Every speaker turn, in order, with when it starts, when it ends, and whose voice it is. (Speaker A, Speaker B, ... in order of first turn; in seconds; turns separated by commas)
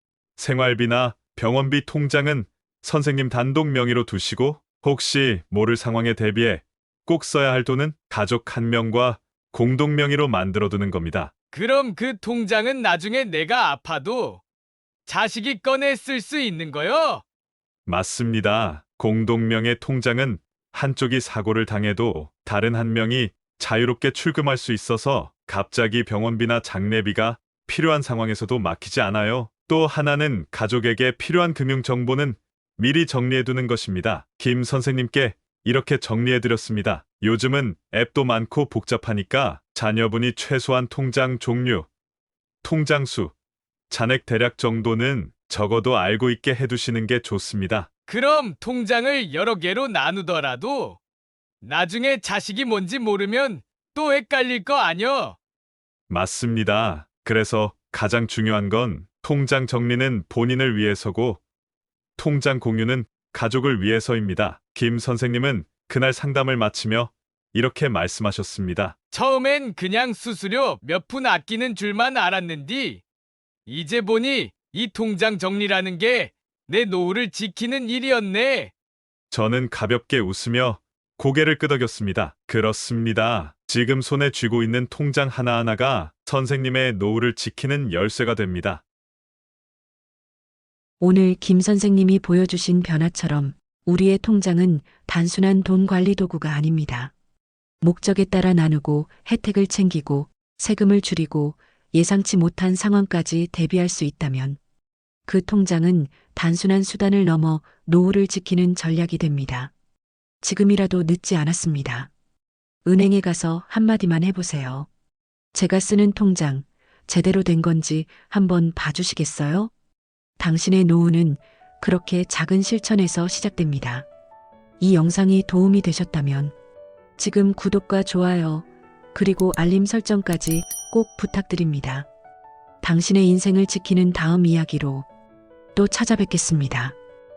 Speaker A: 0.4-11.3, Speaker B: 11.5-14.4, Speaker B: 15.1-17.2, Speaker A: 17.9-41.9, Speaker A: 42.6-43.3, Speaker A: 43.9-47.9, Speaker B: 48.1-51.0, Speaker B: 51.6-55.4, Speaker A: 56.1-61.4, Speaker A: 62.2-69.0, Speaker B: 69.1-73.0, Speaker B: 73.7-78.7, Speaker A: 79.3-88.8, Speaker C: 91.0-97.1, Speaker C: 97.8-104.6, Speaker C: 105.3-109.7, Speaker C: 110.4-112.1, Speaker C: 112.8-114.9, Speaker C: 115.5-119.7, Speaker C: 120.4-124.1, Speaker C: 124.8-126.5, Speaker C: 127.2-132.1, Speaker C: 132.8-135.1, Speaker C: 135.8-137.0